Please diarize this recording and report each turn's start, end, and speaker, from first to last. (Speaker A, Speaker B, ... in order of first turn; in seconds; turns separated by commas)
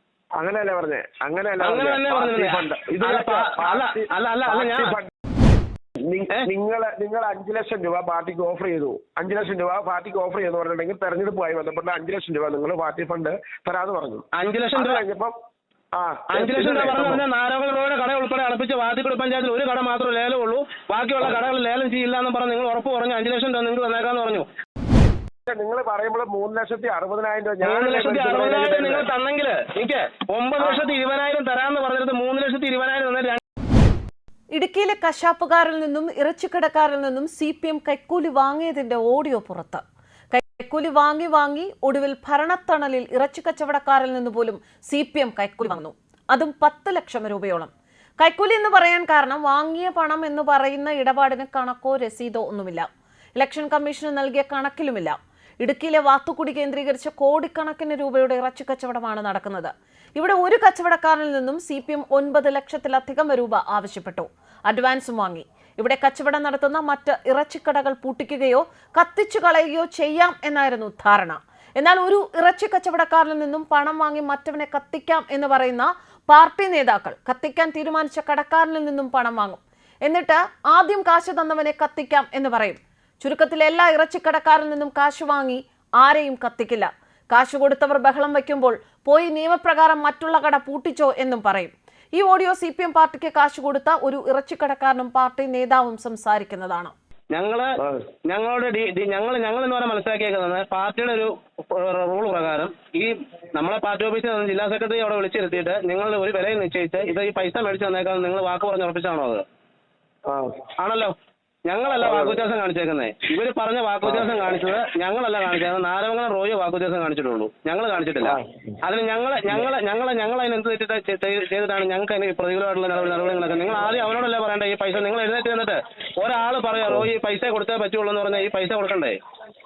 Speaker A: 0.4-5.1, Speaker B: 1.6-4.9, Speaker A: 6.0-15.3, Speaker B: 14.3-15.0, Speaker A: 15.9-17.2, Speaker B: 16.3-24.5, Speaker A: 25.5-29.1, Speaker B: 27.6-33.4, Speaker A: 30.6-30.8, Speaker C: 34.5-96.9, Speaker B: 97.3-97.7, Speaker B: 98.3-109.4, Speaker A: 110.3-110.6, Speaker B: 110.8-111.1, Speaker B: 111.7-129.2, Speaker A: 112.0-112.4, Speaker A: 114.0-114.3, Speaker A: 118.2-118.7